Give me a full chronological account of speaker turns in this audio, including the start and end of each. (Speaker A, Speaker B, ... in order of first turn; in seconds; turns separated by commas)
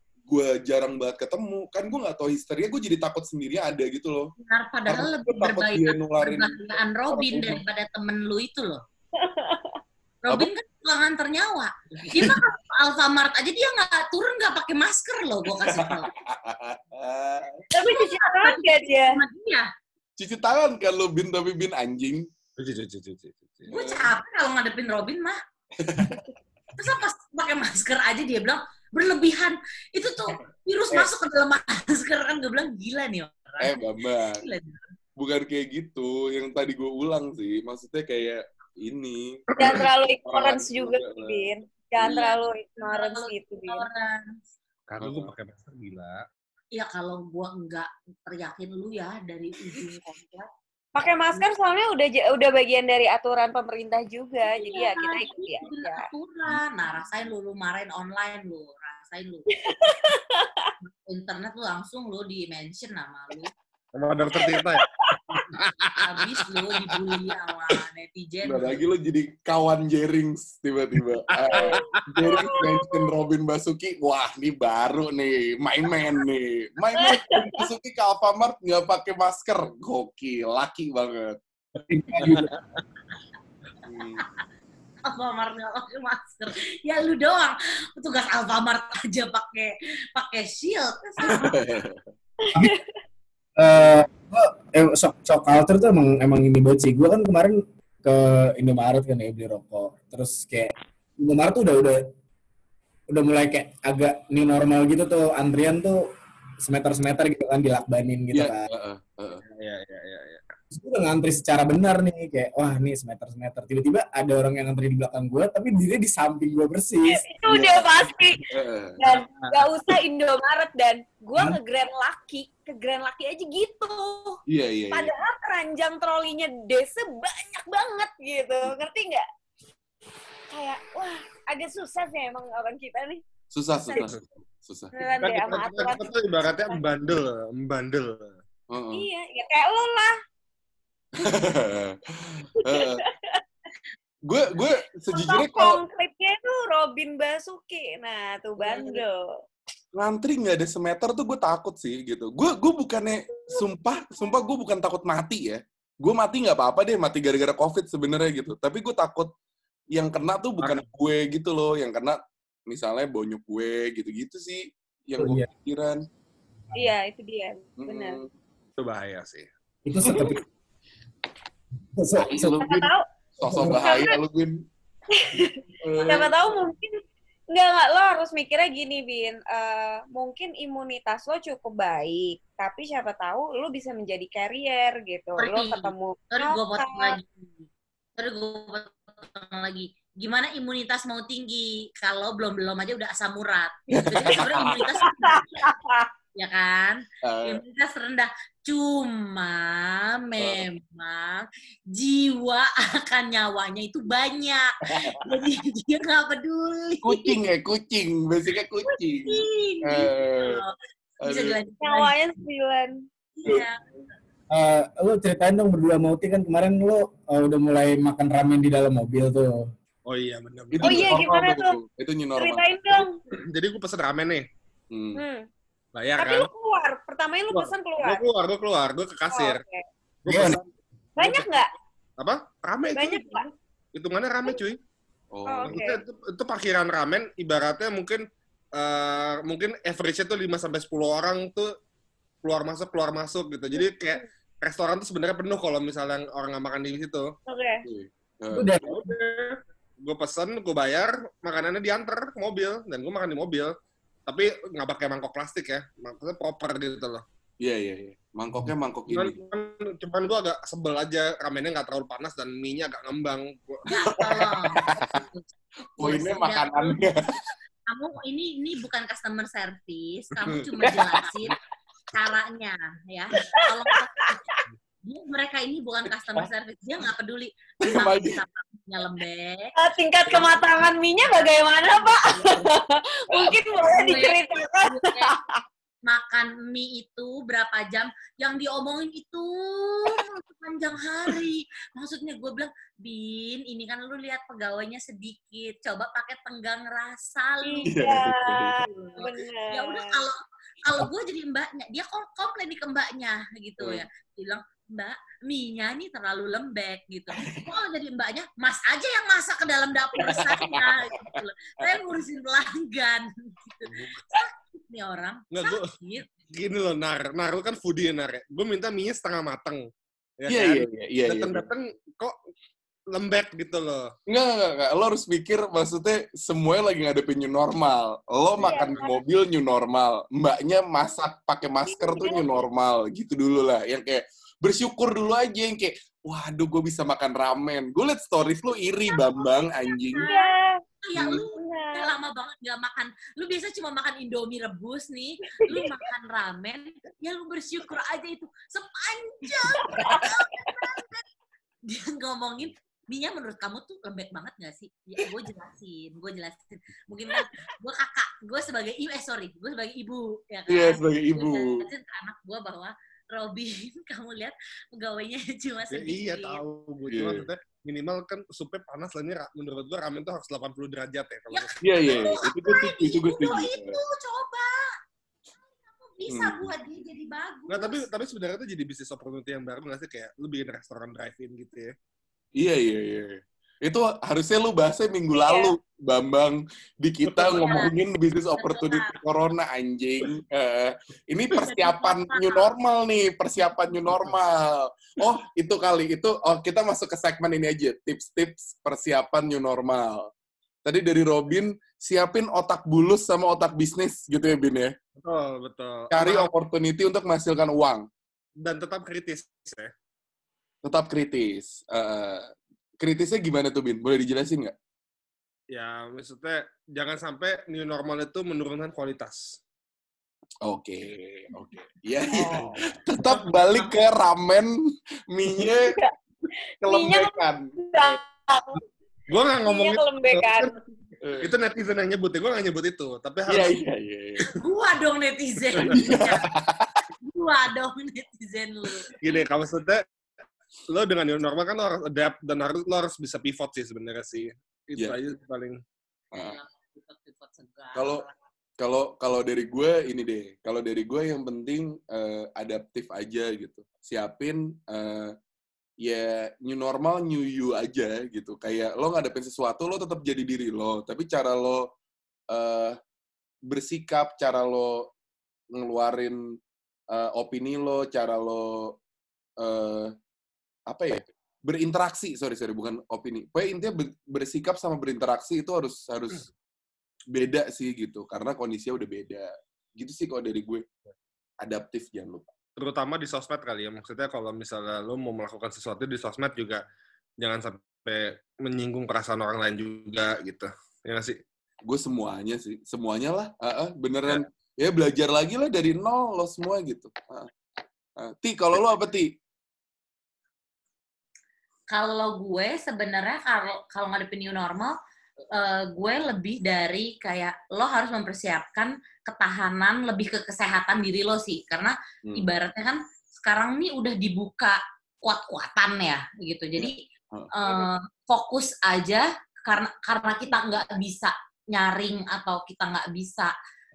Speaker A: 0.3-4.3, Speaker B: 4.4-8.8, Speaker A: 4.9-7.6, Speaker C: 9.2-9.8, Speaker B: 10.2-16.1, Speaker A: 12.0-12.4, Speaker A: 15.6-17.6, Speaker C: 17.7-19.2, Speaker B: 17.8-19.7, Speaker A: 20.2-22.3, Speaker D: 22.6-23.7, Speaker B: 23.7-25.4, Speaker A: 23.7-24.1, Speaker A: 25.8-26.2, Speaker B: 26.8-34.8, Speaker A: 33.6-34.4, Speaker A: 35.2-41.5, Speaker C: 39.6-43.9, Speaker B: 42.0-44.4, Speaker D: 44.9-46.2, Speaker A: 45.0-45.3, Speaker B: 46.7-50.5, Speaker C: 51.0-56.1, Speaker B: 51.0-51.5, Speaker B: 54.5-59.9, Speaker C: 59.5-60.7, Speaker B: 60.9-63.5, Speaker D: 64.0-66.5, Speaker C: 64.3-65.4, Speaker B: 66.0-68.8, Speaker A: 68.4-81.4, Speaker D: 71.3-72.0, Speaker C: 72.3-73.0, Speaker C: 77.0-77.6, Speaker E: 81.9-82.5, Speaker A: 82.1-82.5, Speaker D: 82.2-82.5, Speaker A: 83.8-84.2, Speaker B: 85.0-91.6, Speaker A: 91.2-92.1, Speaker C: 92.5-93.0, Speaker E: 93.6-102.0, Speaker E: 103.1-106.0, Speaker E: 106.6-108.7, Speaker A: 108.3-109.4, Speaker D: 109.4-110.4, Speaker E: 110.7-117.3, Speaker C: 117.1-118.4, Speaker A: 117.5-119.0, Speaker C: 119.0-124.4, Speaker D: 119.1-119.7, Speaker A: 124.5-125.1, Speaker C: 124.9-129.3, Speaker C: 130.5-133.2, Speaker A: 133.5-134.9, Speaker D: 133.9-134.2, Speaker C: 134.9-136.1, Speaker D: 135.2-138.4, Speaker A: 138.7-139.1, Speaker C: 138.9-140.1, Speaker A: 141.2-143.0, Speaker C: 142.6-143.4, Speaker A: 144.3-145.8, Speaker C: 145.1-149.3, Speaker A: 149.9-159.3, Speaker A: 159.9-162.2, Speaker A: 162.7-166.0, Speaker E: 165.2-165.5, Speaker C: 166.7-168.2, Speaker A: 167.8-168.3, Speaker D: 168.8-169.5, Speaker E: 169.8-170.4, Speaker A: 170.1-170.4, Speaker E: 172.0-172.6, Speaker A: 172.2-174.5, Speaker C: 172.2-173.1, Speaker E: 173.5-174.0, Speaker C: 173.7-174.2, Speaker C: 175.1-177.0, Speaker A: 175.8-176.3, Speaker C: 177.5-187.2, Speaker B: 185.4-187.3, Speaker B: 188.2-195.7, Speaker A: 193.9-194.8, Speaker C: 194.9-196.1, Speaker B: 196.4-207.4, Speaker A: 197.2-197.6, Speaker A: 200.4-200.6, Speaker A: 204.9-205.4, Speaker A: 207.0-210.6, Speaker B: 209.2-212.2, Speaker A: 211.2-211.6, Speaker C: 211.8-213.0, Speaker B: 213.4-213.8, Speaker E: 214.5-219.7, Speaker D: 220.1-221.1, Speaker A: 220.7-222.6, Speaker C: 220.8-221.8, Speaker C: 222.4-223.2, Speaker D: 223.3-224.4, Speaker A: 224.9-225.2, Speaker C: 225.1-225.5, Speaker D: 225.9-226.5, Speaker C: 226.2-228.2, Speaker D: 227.5-229.6, Speaker C: 229.3-229.8, Speaker D: 230.2-230.7, Speaker E: 230.3-230.6, Speaker C: 231.2-231.7, Speaker D: 231.2-231.5, Speaker D: 232.2-234.8, Speaker C: 232.9-233.5, Speaker A: 235.3-235.8, Speaker C: 235.5-236.0, Speaker D: 235.7-238.2, Speaker D: 238.8-241.7, Speaker D: 242.4-247.3, Speaker C: 247.5-247.8, Speaker A: 247.8-248.7, Speaker E: 248.5-249.0, Speaker D: 248.8-253.7, Speaker D: 254.3-257.2, Speaker A: 257.6-259.4, Speaker D: 259.1-263.8, Speaker B: 263.9-265.5, Speaker A: 264.1-265.2, Speaker A: 266.0-267.4, Speaker B: 266.0-267.0, Speaker B: 267.9-271.6, Speaker A: 270.8-271.4, Speaker B: 272.1-274.5, Speaker C: 273.6-274.6, Speaker B: 275.0-279.7, Speaker A: 277.8-278.4, Speaker C: 279.8-285.6, Speaker B: 280.3-282.7, Speaker B: 283.3-285.3, Speaker B: 286.1-298.2, Speaker C: 297.6-300.1, Speaker A: 297.9-298.8, Speaker B: 298.9-316.4, Speaker A: 303.8-304.1, Speaker A: 310.2-312.0, Speaker D: 313.9-314.4, Speaker D: 315.5-315.9, Speaker D: 316.5-322.4, Speaker A: 320.5-321.6, Speaker D: 323.1-324.1, Speaker A: 324.3-340.2, Speaker C: 328.6-329.1, Speaker D: 328.7-329.0, Speaker C: 331.9-332.5, Speaker B: 339.4-340.5, Speaker C: 340.2-342.1, Speaker B: 341.1-351.3, Speaker C: 345.6-346.0, Speaker C: 349.7-350.9, Speaker B: 351.9-366.6, Speaker A: 360.7-361.9, Speaker D: 365.9-371.7, Speaker A: 367.1-367.5, Speaker B: 371.5-374.9, Speaker A: 371.8-374.0, Speaker B: 375.8-378.1, Speaker A: 376.3-376.7, Speaker D: 377.7-381.9, Speaker A: 382.6-400.3, Speaker B: 385.4-385.7, Speaker B: 387.3-388.0, Speaker B: 388.6-389.1, Speaker B: 391.5-392.7, Speaker A: 400.9-404.9, Speaker D: 405.2-406.5, Speaker A: 406.1-408.1, Speaker D: 408.6-409.9, Speaker A: 410.8-412.5, Speaker A: 413.0-414.7, Speaker D: 415.7-419.6, Speaker A: 420.6-424.8, Speaker A: 425.3-425.9, Speaker C: 425.6-426.1, Speaker A: 426.8-428.2, Speaker C: 426.9-428.8, Speaker D: 429.3-430.8, Speaker C: 429.6-430.7, Speaker A: 431.2-431.5, Speaker D: 431.4-433.8, Speaker A: 433.5-434.4, Speaker B: 434.5-436.5, Speaker A: 435.8-436.9, Speaker B: 437.2-439.4, Speaker D: 439.2-440.0, Speaker D: 440.9-445.8, Speaker A: 446.3-446.6, Speaker B: 446.3-448.3, Speaker A: 447.9-448.3, Speaker A: 448.8-455.3, Speaker A: 456.0-461.9, Speaker A: 462.5-463.0, Speaker A: 463.7-465.1, Speaker A: 465.7-466.4, Speaker A: 467.1-468.9, Speaker A: 469.6-470.1, Speaker A: 470.9-476.5, Speaker A: 477.3-480.9, Speaker A: 481.6-482.5, Speaker D: 482.8-486.8, Speaker D: 487.4-491.4, Speaker A: 491.9-497.5, Speaker A: 498.2-499.4, Speaker B: 501.9-505.0, Speaker B: 505.6-517.0, Speaker A: 516.8-517.5, Speaker B: 517.5-523.5